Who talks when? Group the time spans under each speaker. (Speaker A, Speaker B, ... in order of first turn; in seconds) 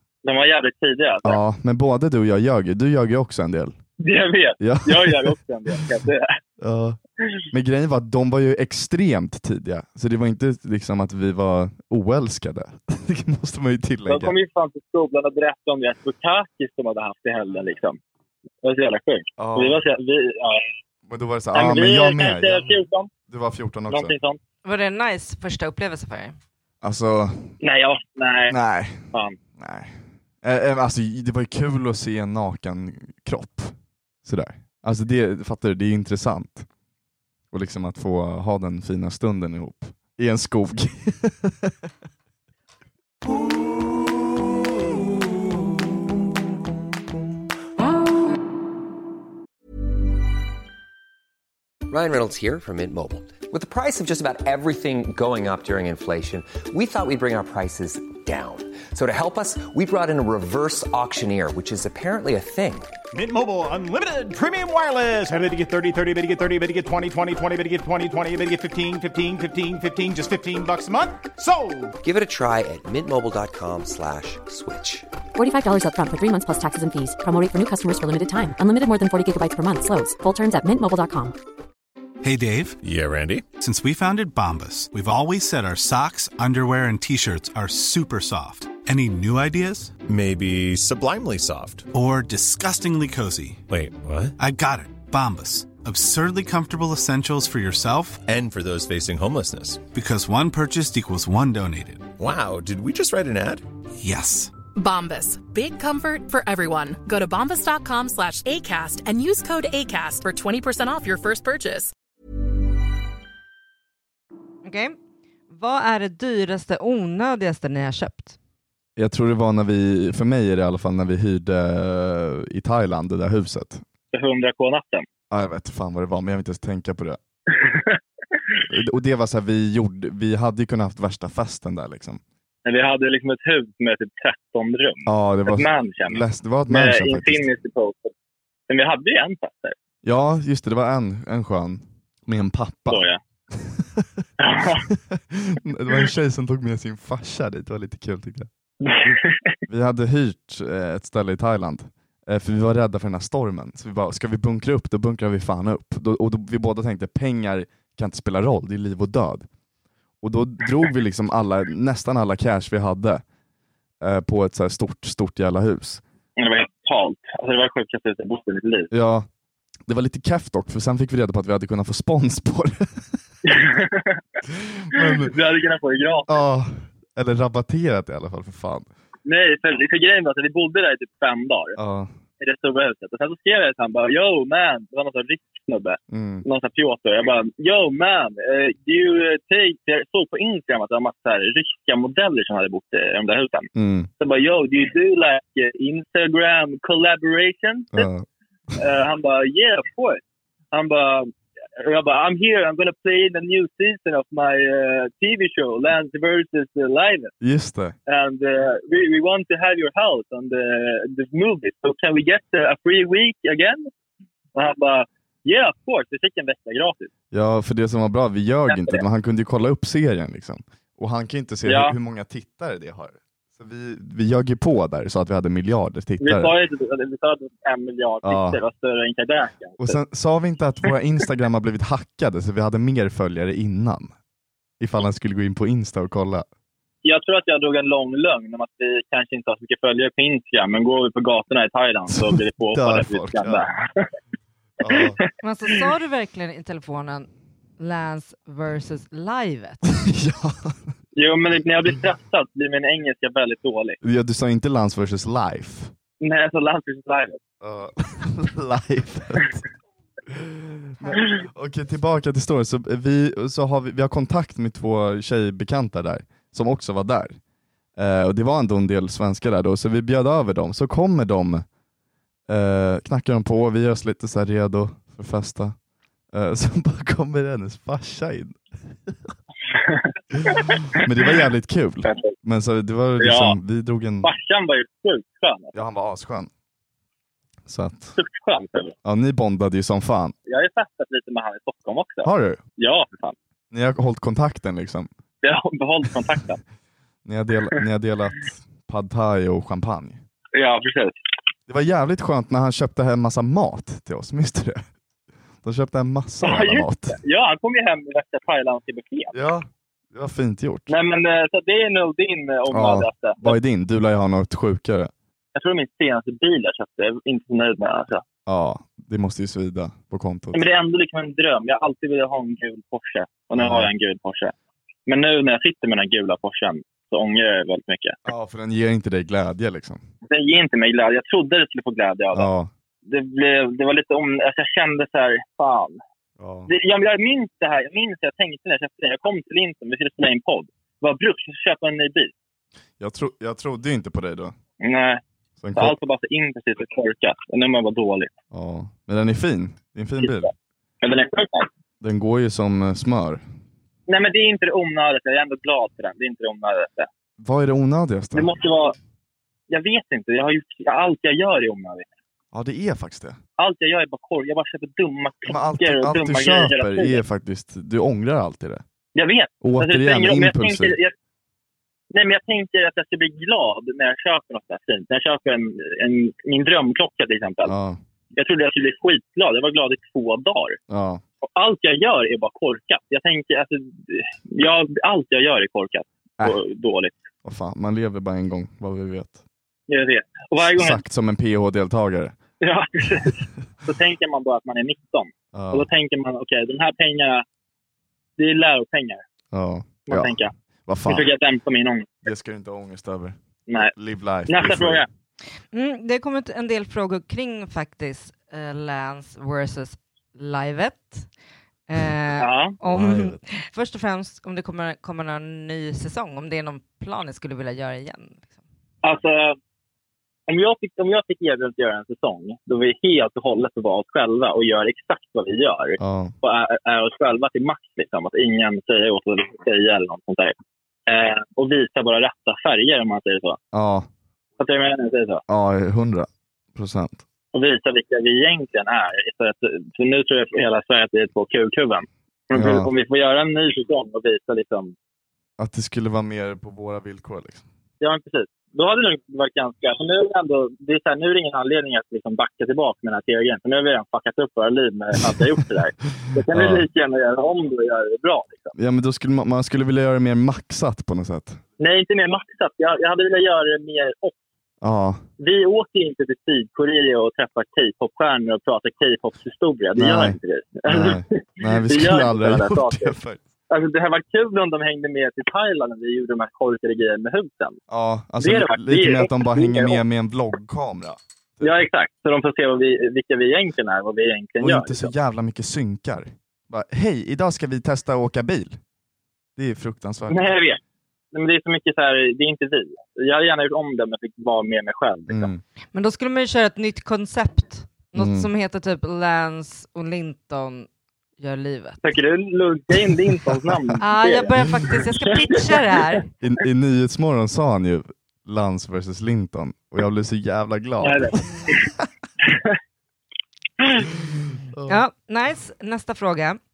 Speaker A: 0.2-1.4, 4.0-6.3, 14.1-18.0, 18.6-20.6, 21.5-23.1, 23.9-24.4, 27.6-28.6, 124.1-125.0, 127.5-128.0, 132.6-138.1, 138.7-139.7, 142.9-143.2, 144.4-144.8, 148.8-149.6, 166.4-168.9, 173.4-174.2, 175.0-176.4, 179.2-181.8, 182.4-193.7, 194.2-198.1, 198.8-200.2, 200.7-207.3, 208.1-213.9, 214.5-217.1, 218.7-219.0, 221.7-221.9, 226.2-229.9, 237.0-244.1, 244.8-245.2, 251.2-254.0, 256.2-257.4, 279.7-280.8, 283.2-283.6, 284.2-285.8, 288.2-288.9, 290.5-293.3, 295.4-296.6, 300.5-301.1, 306.4-309.3, 310.9-313.5, 315.5-318.2, 320.5-324.5, 325.1-328.1, 330.3-332.5, 333.1-336.0, 336.7-342.3, 344.8-345.2, 345.7-348.3, 350.2-350.5, 351.0-351.7, 354.1-357.1, 358.3-358.9, 359.7-362.1, 363.6-367.2, 369.1-371.1, 372.1-377.7, 378.3-380.8, 381.5-387.1, 389.9-391.0, 392.6-397.4, 398.4-399.2, 400.1-400.5, 401.1-402.2, 404.5-405.1, 412.4-412.8, 419.0-419.6, 420.5-430.5, 431.1-433.6, 434.6-435.4, 437.5-444.9, 448.0-458.7, 461.8-464.4, 465.4-473.1, 473.7-477.8, 478.4-480.0, 481.6-485.1, 490.3-490.8, 491.3-495.5, 502.0-504.7, 505.3-506.0, 511.0-511.9, 512.4-512.7
Speaker B: 1.2-3.8, 4.6-5.3, 6.6-7.0, 7.5-14.3, 19.4-19.8, 21.1-24.1, 26.8-27.5, 28.5-29.0, 29.6-36.7, 37.5-41.7, 119.0-123.8, 125.3-127.2, 128.7-132.2, 135.1-137.5, 140.0-144.2, 144.9-148.5, 149.7-159.5, 160.2-163.2, 164.0-166.0, 168.9-169.3, 169.9-173.2, 174.6-175.3, 176.3-178.9, 181.8-182.1, 186.1-186.4, 193.7-194.1, 197.9-198.2, 207.4-207.9, 217.3-226.5, 228.2-228.6, 229.8-234.1, 234.8-236.4, 242.1-243.7, 244.8-245.2, 249.9-250.9, 254.0-255.9, 257.6-259.6, 260.3-267.4, 268.0-271.6, 272.5-275.8, 276.3-279.1, 280.9-284.3, 285.7-286.5, 287.7-288.2, 289.0-290.3, 292.2-292.6, 293.7-295.1, 297.2-300.2, 301.7-304.8, 305.6-307.2, 309.3-310.9, 312.7-315.1, 318.4-320.6, 323.6-323.9, 328.2-330.0, 332.3-332.7, 336.4-336.7, 343.0-344.5, 345.6-345.9, 348.5-350.5, 352.0-353.4, 357.4-358.5, 362.5-363.4, 365.5-368.8, 369.6-370.9, 377.6-378.0, 380.9-381.2, 387.4-389.4, 390.7-392.4, 395.5-395.9, 399.5-401.3, 402.2-405.1, 412.9-413.4, 426.0-426.3, 433.7-434.1, 435.5-437.2, 442.5-442.9, 445.6-447.6, 456.5-456.9, 458.7-461.6, 464.8-465.2, 469.9-473.4, 477.9-481.9, 484.6-488.8, 489.6-490.5, 495.3-495.6, 498.1-498.5, 506.4-512.0, 514.7-515.0
Speaker C: 24.6-26.4, 114.6-115.0, 115.5-118.3, 245.4-247.3, 247.8-249.8, 405.7-411.3, 411.9-418.6, 495.9-500.9, 501.4-502.0, 504.0-506.2, 514.9-516.6
Speaker D: 51.9-62.9, 72.0-75.1
Speaker E: 63.1-71.9
Speaker F: 75.3-81.3
Speaker G: 82.2-82.8, 83.6-89.9, 91.9-93.6, 94.4-98.2, 99.9-102.1, 104.0-104.5
Speaker H: 82.8-83.5, 90.0-91.9, 93.7-94.3, 98.2-99.9, 102.2-103.6
Speaker I: 104.7-111.9